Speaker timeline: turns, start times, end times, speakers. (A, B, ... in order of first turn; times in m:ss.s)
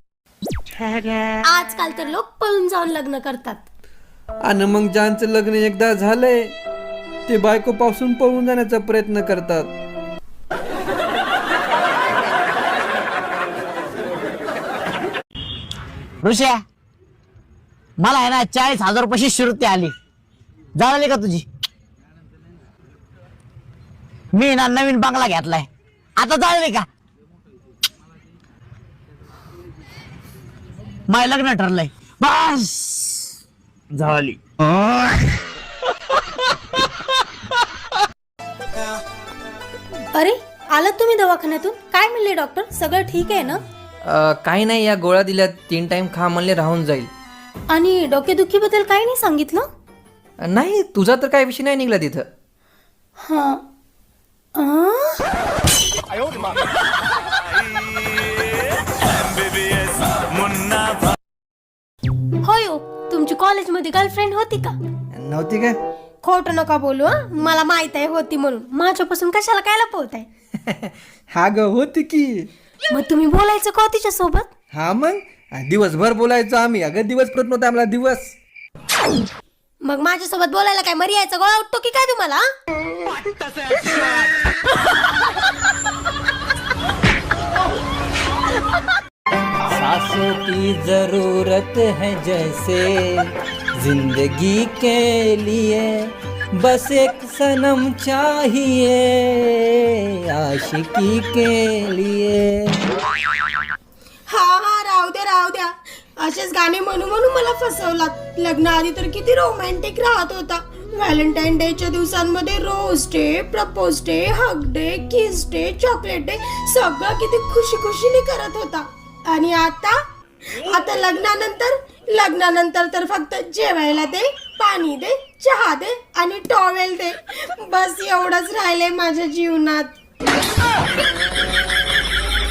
0:01.4-0:03.6 A
0:04.5-0:06.5 B
0:07.3-0:09.7 B
0:16.2-0:16.6 C
0:18.0-0:19.9 C
0:20.8-0:21.4 C
0:24.4-0:25.7 C
0:26.2-0:26.8 C
0:31.1-0:33.0 C
0:40.1-0:43.6 A
0:44.0-0:47.1 D
0:47.7-0:49.6 A
0:50.4-0:52.2 D
0:53.2-0:53.6 A
0:54.6-0:55.2 A
1:02.4-1:04.8 A
1:05.2-1:05.7 B
1:06.2-1:10.3 A
1:11.4-1:12.3 B
1:12.9-1:14.5 A
1:14.8-1:18.2 B
1:16.6-1:17.9 D
1:19.8-1:22.4 A
1:29.7-1:42.8 D
1:44.3-2:00.0 A
2:00.6-2:09.9 A